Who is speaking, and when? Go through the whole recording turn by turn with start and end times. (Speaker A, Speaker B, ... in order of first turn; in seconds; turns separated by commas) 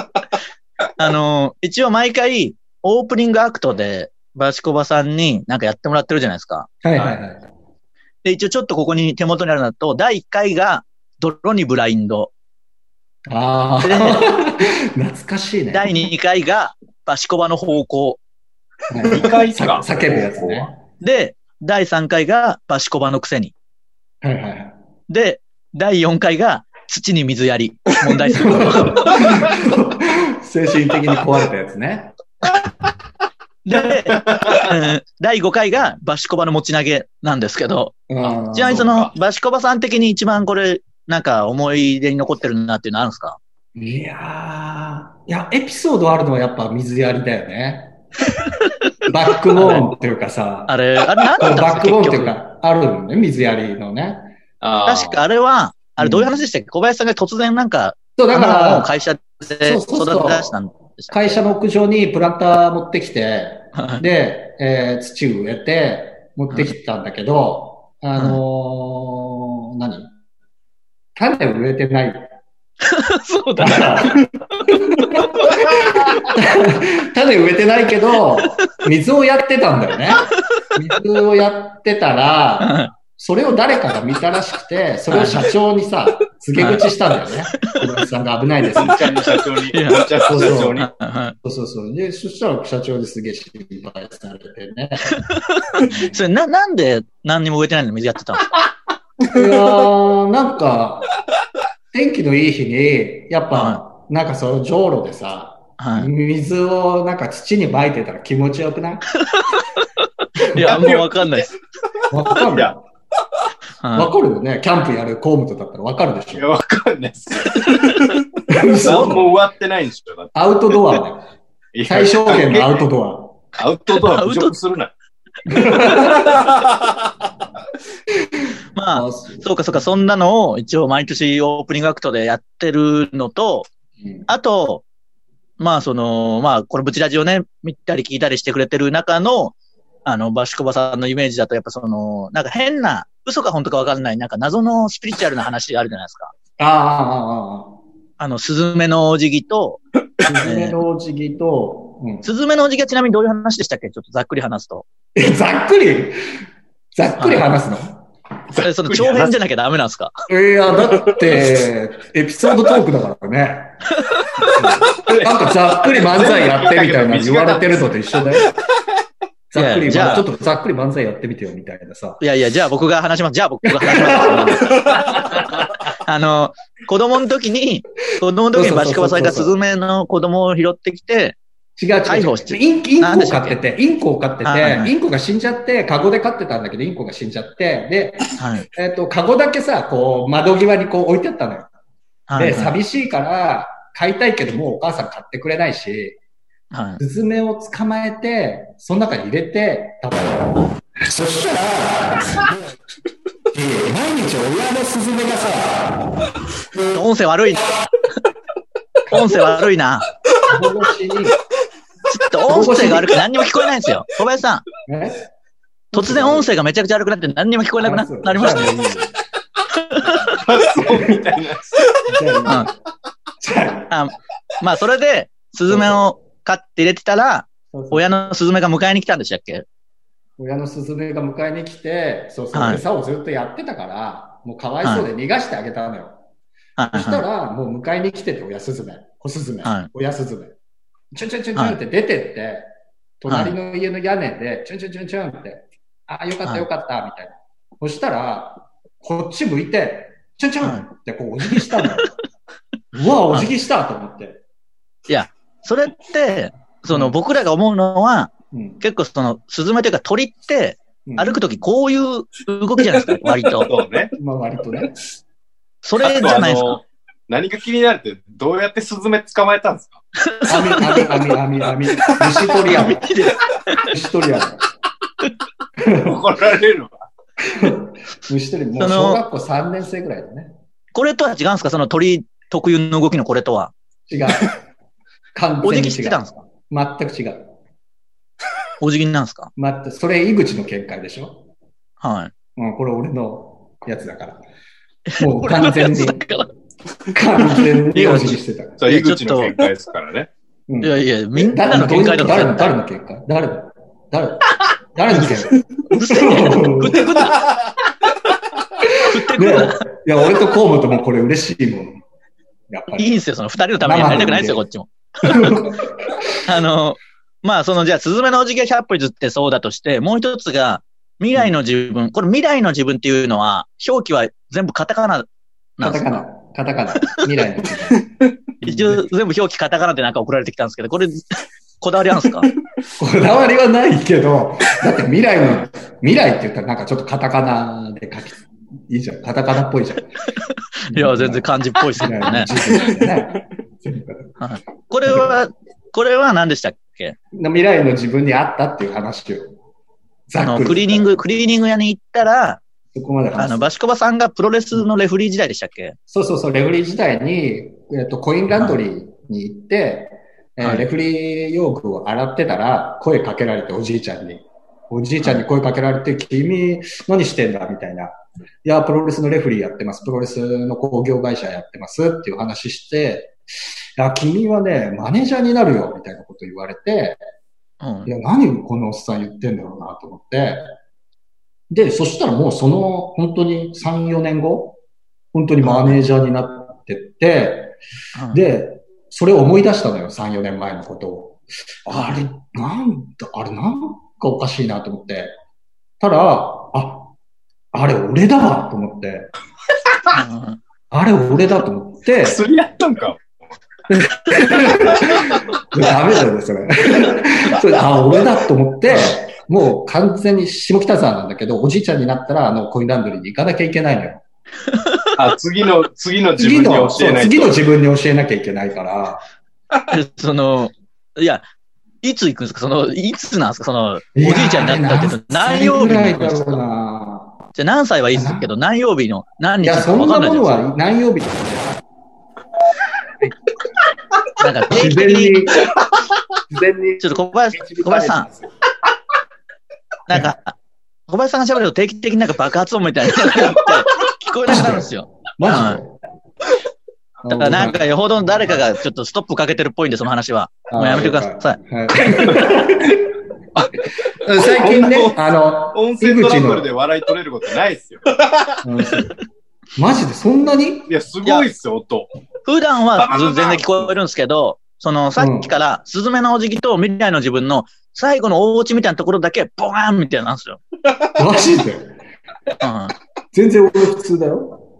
Speaker A: 1.0-7.1, Speaker B: 6.8-7.5, Speaker A: 8.2-12.3, Speaker B: 13.3-16.0, Speaker A: 13.8-14.3, Speaker A: 15.7-18.2, Speaker B: 18.9-20.8, Speaker C: 19.1-20.7, Speaker A: 21.0-23.5, Speaker B: 24.2-24.7, Speaker A: 25.1-29.2, Speaker B: 28.2-32.1, Speaker A: 33.6-43.4, Speaker C: 33.7-34.7, Speaker B: 38.1-39.0, Speaker C: 38.7-39.1, Speaker B: 43.8-48.0, Speaker A: 48.5-48.7, Speaker B: 49.1-50.7, Speaker A: 49.5-49.9, Speaker A: 50.7-52.4, Speaker B: 51.4-54.3, Speaker C: 54.6-55.2, Speaker A: 54.8-61.4, Speaker B: 56.0-56.3, Speaker B: 58.2-58.9, Speaker B: 59.6-60.5, Speaker B: 61.1-70.1, Speaker A: 63.7-64.0, Speaker B: 71.2-72.3, Speaker A: 72.8-74.2, Speaker B: 73.6-89.3, Speaker A: 75.0-76.3, Speaker A: 82.6-82.9, Speaker A: 85.1-85.5, Speaker A: 86.5-86.9, Speaker C: 88.7-90.9, Speaker A: 89.7-91.3, Speaker B: 90.2-90.9, Speaker B: 91.4-95.2, Speaker A: 95.1-98.5, Speaker B: 95.8-96.2, Speaker B: 99.3-101.1, Speaker B: 101.9-109.0, Speaker A: 103.5-103.8, Speaker A: 105.8-106.1, Speaker A: 109.2-109.6, Speaker A: 110.4-111.5, Speaker C: 110.6-111.5, Speaker B: 112.1-112.8, Speaker C: 112.5-112.7, Speaker A: 113.8-114.1, Speaker B: 113.9-116.5, Speaker C: 116.3-120.8, Speaker A: 117.7-118.0, Speaker B: 118.5-119.3, Speaker B: 120.3-121.3, Speaker C: 121.7-122.8, Speaker B: 121.8-123.4, Speaker C: 123.5-124.9, Speaker A: 123.9-124.5, Speaker B: 125.5-126.3, Speaker C: 125.8-127.1, Speaker A: 128.8-133.7, Speaker B: 128.9-129.8, Speaker A: 134.3-134.8, Speaker A: 135.6-139.5, Speaker A: 140.1-146.3, Speaker B: 146.6-147.7, Speaker A: 148.2-149.8, Speaker B: 150.2-152.3, Speaker A: 150.4-150.8, Speaker A: 152.2-154.8, Speaker B: 155.2-156.2, Speaker B: 156.9-158.0, Speaker A: 157.2-157.5, Speaker C: 158.5-159.3, Speaker A: 158.6-160.1, Speaker B: 160.3-163.8, Speaker C: 160.8-161.3, Speaker A: 164.0-164.5, Speaker B: 164.4-168.5, Speaker C: 164.9-168.5, Speaker B: 169.5-172.2, Speaker A: 169.6-170.2, Speaker A: 172.2-175.4, Speaker B: 173.8-175.2, Speaker A: 176.0-181.4, Speaker B: 178.5-179.5, Speaker B: 181.8-191.7, Speaker A: 182.1-183.6, Speaker A: 184.4-184.9, Speaker A: 188.4-188.7, Speaker A: 192.3-192.7, Speaker B: 192.3-196.2, Speaker A: 196.7-197.0, Speaker B: 197.0-202.5, Speaker B: 203.5-206.0, Speaker A: 206.9-207.8, Speaker A: 209.1-210.1, Speaker B: 210.4-211.4, Speaker A: 212.1-214.6, Speaker B: 212.5-213.2, Speaker B: 214.8-215.2, Speaker B: 215.9-216.5, Speaker A: 215.9-218.8, Speaker B: 217.8-219.2, Speaker A: 219.7-220.3, Speaker B: 220.1-221.2, Speaker C: 220.4-222.1, Speaker B: 222.1-222.7, Speaker B: 223.4-223.9, Speaker A: 223.9-229.7, Speaker B: 225.7-226.1, Speaker B: 227.7-228.3, Speaker B: 230.4-236.2, Speaker A: 232.5-232.8, Speaker A: 236.8-237.2, Speaker B: 236.9-240.5, Speaker A: 239.6-239.9, Speaker B: 241.1-242.7, Speaker B: 243.2-252.1, Speaker A: 243.3-243.5, Speaker A: 251.5-252.1, Speaker B: 252.9-254.4, Speaker A: 255.1-263.7, Speaker B: 256.9-257.2, Speaker B: 258.5-258.8, Speaker B: 261.1-261.4, Speaker C: 263.6-264.1, Speaker B: 264.1-265.0, Speaker A: 265.8-266.8, Speaker C: 266.0-270.0, Speaker A: 270.2-271.1, Speaker B: 270.4-273.3, Speaker A: 272.6-273.9, Speaker B: 273.8-274.6, Speaker B: 275.8-276.2, Speaker C: 276.0-276.9, Speaker B: 277.4-280.5, Speaker A: 278.8-279.2, Speaker A: 280.9-283.7, Speaker B: 284.1-284.5, Speaker B: 285.3-287.5, Speaker A: 285.6-286.4, Speaker A: 288.8-289.5, Speaker B: 289.6-291.4, Speaker A: 292.0-292.3, Speaker B: 292.6-294.4, Speaker A: 295.1-296.5, Speaker B: 295.2-296.2, Speaker B: 297.1-298.8, Speaker A: 297.9-299.5, Speaker C: 298.8-300.3, Speaker B: 300.7-307.1, Speaker A: 300.8-302.8, Speaker A: 305.9-307.4, Speaker B: 308.8-312.0, Speaker A: 309.0-309.8, Speaker B: 312.7-313.2, Speaker A: 313.0-315.6, Speaker B: 313.8-314.6, Speaker B: 315.2-316.3, Speaker A: 316.4-326.2, Speaker B: 325.8-329.1, Speaker A: 328.6-332.5, Speaker B: 333.0-340.2, Speaker A: 340.4-342.5, Speaker B: 340.9-344.3, Speaker A: 344.4-347.1, Speaker B: 345.1-345.3, Speaker B: 347.3-349.5, Speaker B: 350.3-351.2, Speaker A: 350.4-352.6, Speaker B: 352.9-353.7, Speaker A: 353.4-356.0, Speaker B: 356.1-373.4, Speaker A: 360.6-360.9, Speaker B: 374.0-377.2, Speaker A: 377.8-378.1, Speaker B: 378.1-380.6, Speaker B: 381.7-384.8, Speaker B: 385.3-387.8, Speaker A: 385.6-386.0, Speaker A: 388.1-388.4, Speaker B: 388.3-395.3, Speaker A: 391.9-392.2, Speaker B: 396.0-397.1, Speaker B: 397.7-399.3, Speaker A: 400.1-400.6, Speaker B: 400.9-402.4, Speaker C: 402.2-403.2, Speaker B: 403.9-414.2, Speaker A: 414.7-415.1, Speaker C: 415.1-417.6, Speaker B: 416.4-419.2, Speaker A: 419.9-421.4, Speaker A: 422.0-426.6, Speaker B: 424.1-427.4, Speaker A: 427.6-430.6, Speaker B: 428.1-428.5, Speaker B: 429.6-431.8, Speaker A: 434.4-435.5, Speaker B: 434.7-435.7, Speaker B: 436.5-438.3, Speaker A: 437.0-438.3, Speaker A: 440.1-440.6, Speaker A: 441.1-445.8, Speaker B: 444.4-446.0, Speaker B: 447.2-447.9, Speaker A: 447.3-451.6, Speaker B: 450.7-453.1, Speaker C: 453.6-458.6, Speaker B: 454.2-456.7, Speaker B: 458.6-459.1, Speaker B: 459.8-460.9, Speaker C: 460.9-462.1, Speaker A: 462.4-470.6, Speaker C: 463.0-463.8, Speaker B: 465.2-465.5, Speaker B: 471.1-471.9, Speaker A: 472.6-472.9, Speaker B: 473.3-474.6